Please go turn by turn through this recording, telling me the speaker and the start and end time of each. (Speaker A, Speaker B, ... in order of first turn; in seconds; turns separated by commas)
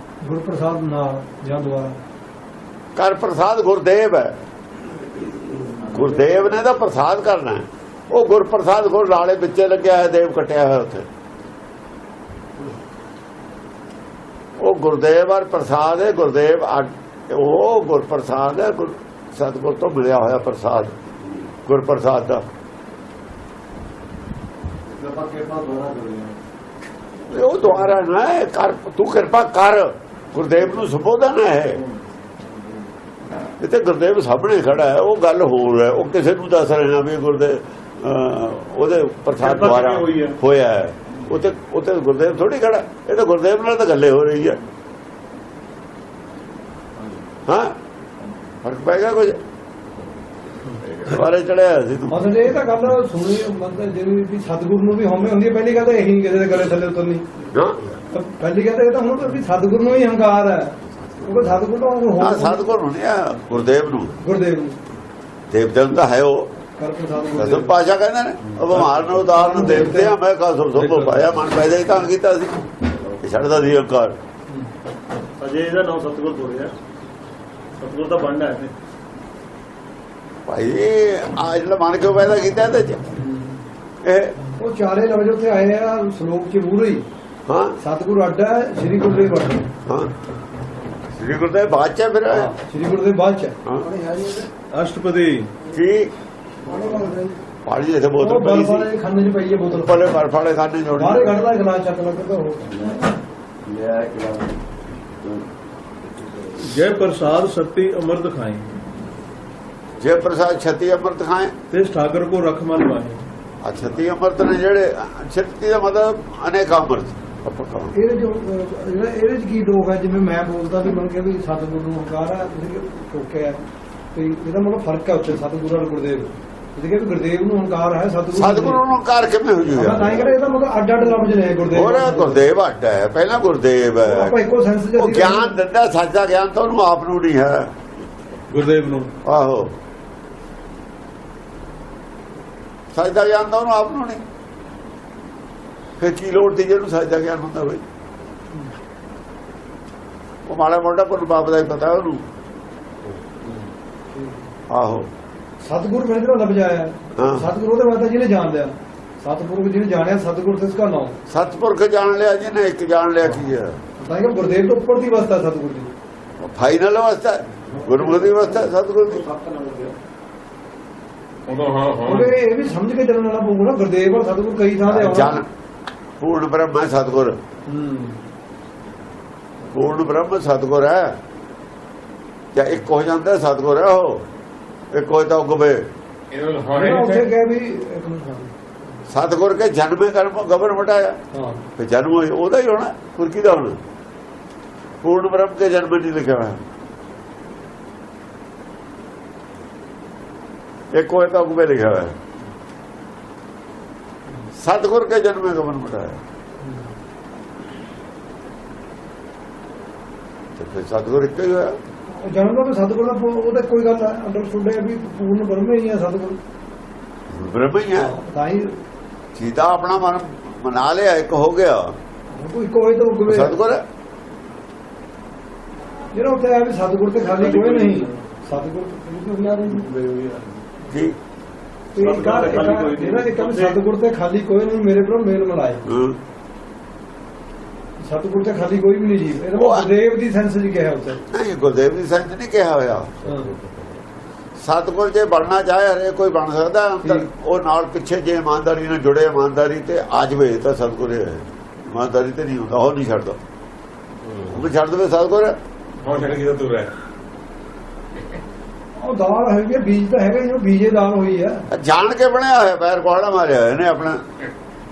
Speaker A: 0.2-2.0, Speaker B: 3.0-4.4, Speaker B: 5.9-11.1, Speaker B: 14.6-21.0, Speaker B: 21.6-22.4, Speaker C: 24.9-26.4, Speaker B: 27.3-31.8, Speaker C: 31.7-32.9, Speaker B: 33.6-44.6, Speaker D: 39.4-40.4, Speaker B: 47.5-47.8, Speaker B: 48.6-49.4, Speaker B: 51.0-52.5, Speaker A: 52.1-57.2, Speaker B: 57.5-57.9, Speaker A: 58.1-62.6, Speaker B: 62.2-64.2, Speaker A: 64.2-64.8, Speaker B: 65.5-66.5, Speaker A: 66.8-67.7, Speaker B: 67.3-74.2, Speaker A: 69.2-70.2, Speaker D: 75.4-76.7, Speaker D: 77.8-78.7, Speaker B: 80.5-83.1, Speaker A: 83.2-83.6, Speaker B: 84.0-84.4, Speaker A: 84.6-87.0, Speaker B: 87.5-87.8, Speaker A: 87.8-89.7, Speaker B: 89.9-90.1, Speaker B: 91.1-92.5, Speaker A: 92.3-94.5, Speaker E: 94.7-95.5, Speaker B: 95.7-96.1, Speaker A: 96.6-97.4, Speaker B: 97.7-98.9, Speaker A: 98.2-100.1, Speaker B: 99.7-101.4, Speaker A: 101.0-103.0, Speaker B: 103.7-104.5, Speaker E: 106.6-108.7, Speaker B: 110.0-111.5, Speaker E: 111.7-113.2, Speaker B: 113.6-117.9, Speaker A: 117.9-123.6, Speaker A: 124.1-128.8, Speaker B: 128.3-130.3, Speaker A: 129.7-132.4, Speaker B: 131.7-134.4, Speaker A: 134.0-135.6, Speaker B: 135.0-137.8, Speaker E: 138.5-139.1, Speaker B: 139.2-139.7, Speaker B: 142.9-144.2, Speaker B: 146.0-147.8, Speaker B: 150.5-152.2, Speaker A: 154.1-154.4, Speaker B: 154.7-155.1, Speaker A: 155.7-161.2, Speaker B: 157.2-157.5, Speaker B: 161.3-163.8, Speaker A: 164.0-165.9, Speaker B: 166.4-169.2, Speaker D: 169.2-169.8, Speaker A: 169.5-169.9, Speaker F: 171.5-172.3, Speaker A: 172.0-175.4, Speaker B: 174.9-175.5, Speaker B: 176.2-177.4, Speaker A: 177.7-178.2, Speaker B: 179.7-181.2, Speaker B: 182.5-184.2, Speaker B: 184.9-185.9, Speaker F: 186.3-187.3, Speaker A: 186.7-188.5, Speaker B: 189.1-191.2, Speaker A: 191.3-191.6, Speaker B: 191.8-193.8, Speaker B: 195.0-196.6, Speaker B: 200.9-202.2, Speaker B: 204.6-206.2, Speaker B: 210.6-211.8, Speaker A: 212.1-216.4, Speaker B: 217.3-218.2, Speaker A: 217.9-218.8, Speaker B: 219.3-222.0, Speaker A: 222.3-223.6, Speaker B: 223.3-223.8, Speaker A: 226.1-229.9, Speaker D: 227.5-228.2, Speaker D: 229.8-230.6, Speaker B: 230.9-231.2, Speaker A: 231.9-235.8, Speaker D: 232.0-233.8, Speaker B: 235.8-236.2, Speaker A: 238.0-241.2, Speaker B: 239.5-239.9, Speaker B: 241.3-243.5, Speaker A: 243.2-243.5, Speaker B: 244.6-253.4, Speaker B: 254.4-255.6, Speaker F: 256.0-256.9, Speaker A: 259.0-261.7, Speaker B: 261.7-264.2